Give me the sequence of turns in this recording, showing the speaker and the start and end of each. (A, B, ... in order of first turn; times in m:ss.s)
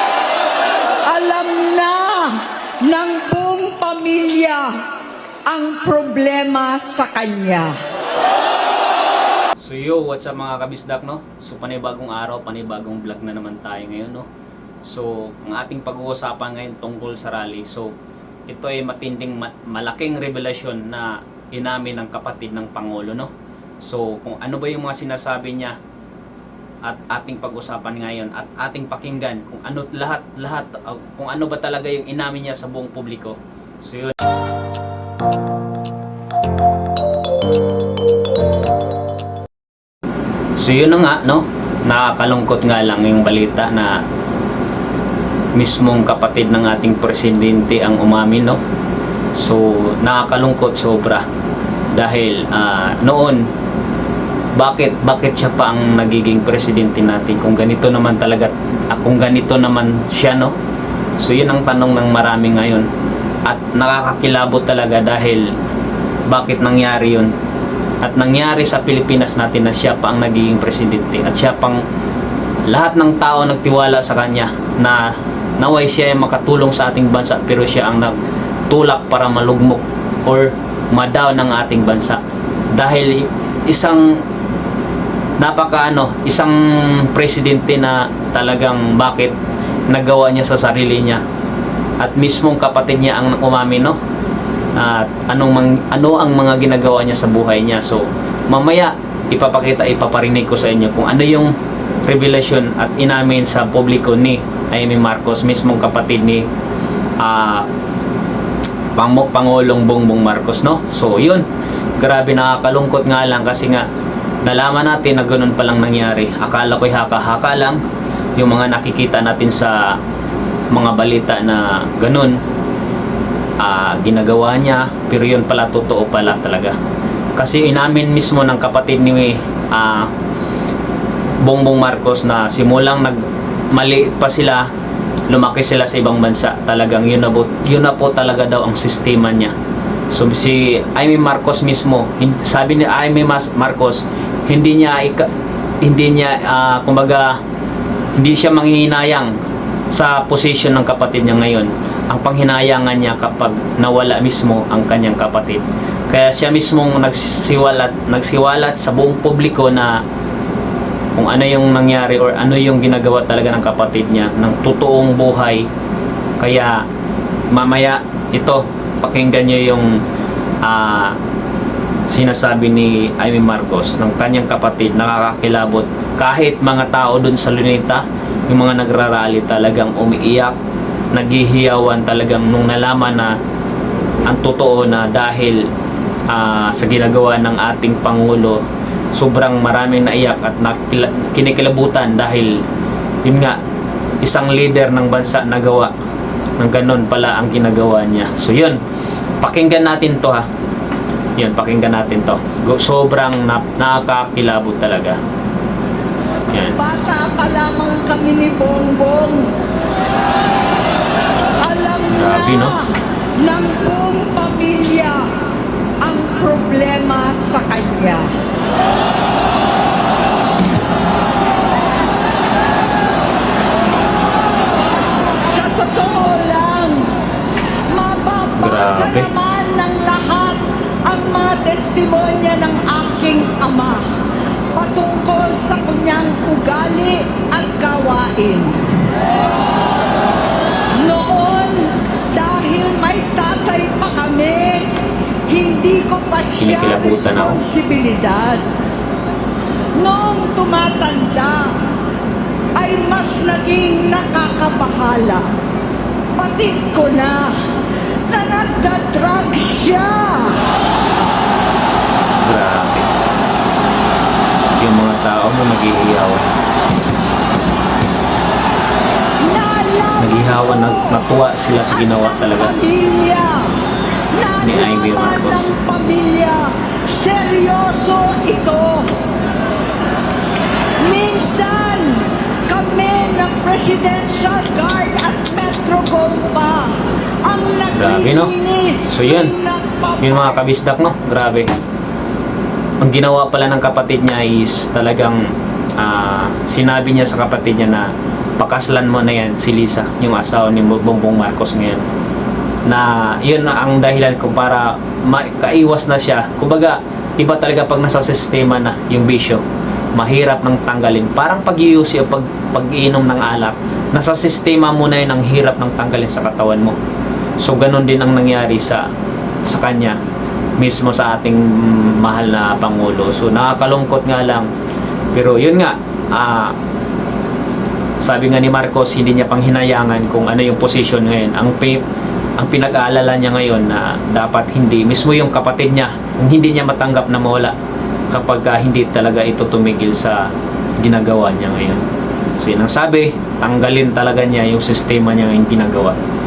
0:01.1-0:04.7 A
0:05.5-0:07.8 A
0:09.6-0:14.3 B
0:14.8-0:17.9 B
0:18.5-0:23.3 B
0:23.8-0:25.8 B
0:26.8-0:34.2 B
0:40.6-0:44.0 B
0:45.5-0:48.6 B
0:49.4-0:51.2 B
0:51.9-0:53.4 B
0:54.6-1:00.6 B
1:01.2-1:02.9 B
1:03.4-1:05.5 B
1:06.3-1:07.3 B
1:08.0-1:11.8 B
1:12.7-1:18.2 B
1:18.7-1:22.2 B
1:22.7-1:24.2 B
1:25.4-1:29.4 B
1:29.9-1:31.2 B
1:32.0-1:34.0 B
1:34.8-1:41.5 B
1:42.0-1:46.4 B
1:47.2-1:47.7 B
1:49.0-1:51.4 B
1:52.0-1:53.9 B
1:54.4-1:57.8 B
1:58.4-2:00.0 B
2:00.7-2:02.4 B
2:03.6-2:06.8 B
2:07.4-2:10.1 B
2:11.4-2:14.7 B
2:15.3-2:19.5 B
2:20.1-2:25.3 B
2:25.8-2:27.4 B
2:28.2-2:29.3 B
2:29.9-2:40.0 B
2:41.2-2:45.7 B
2:46.4-2:46.8 B
2:47.5-2:50.0 B
2:50.6-2:51.2 B
2:52.1-3:00.6 B
3:01.1-3:03.3 B
3:04.3-3:05.7 B
3:06.3-3:08.6 B
3:09.1-3:12.6 B
3:13.2-3:13.6 B
3:14.2-3:15.9 B
3:16.6-3:18.8 B
3:19.4-3:20.5 B
3:21.4-3:25.2 B
3:26.5-3:26.8 B
3:26.7-3:29.5 A
3:31.6-3:35.3 A
3:32.1-3:32.8 B
3:36.0-3:38.3 A
3:45.5-3:47.1 A
3:47.9-3:54.0 A
3:48.6-3:49.3 B
3:54.7-3:59.0 A
4:00.9-4:04.9 A
4:05.5-4:08.6 A
4:06.6-4:07.6 B
4:10.0-4:11.7 A
4:12.8-4:15.5 A
4:16.4-4:17.5 A
4:18.3-4:20.6 A
4:22.4-4:23.1 B
4:24.8-4:26.4 B
4:29.4-4:31.2 A
4:30.2-4:32.8 B
4:31.9-4:33.7 A
4:34.3-4:39.1 A
4:34.6-4:35.7 B
4:41.0-4:50.6 A
4:47.9-4:48.5 B
4:49.1-4:49.5 B
4:50.2-4:51.7 B
4:53.0-5:02.0 B
5:02.9-5:09.6 B
5:10.2-5:17.0 B
5:17.6-5:19.1 B
5:19.6-5:20.2 B
5:20.8-5:24.7 B
5:25.3-5:26.8 B
5:28.2-5:32.0 B
5:32.6-5:37.7 B
5:38.3-5:42.0 B
5:42.6-5:46.2 B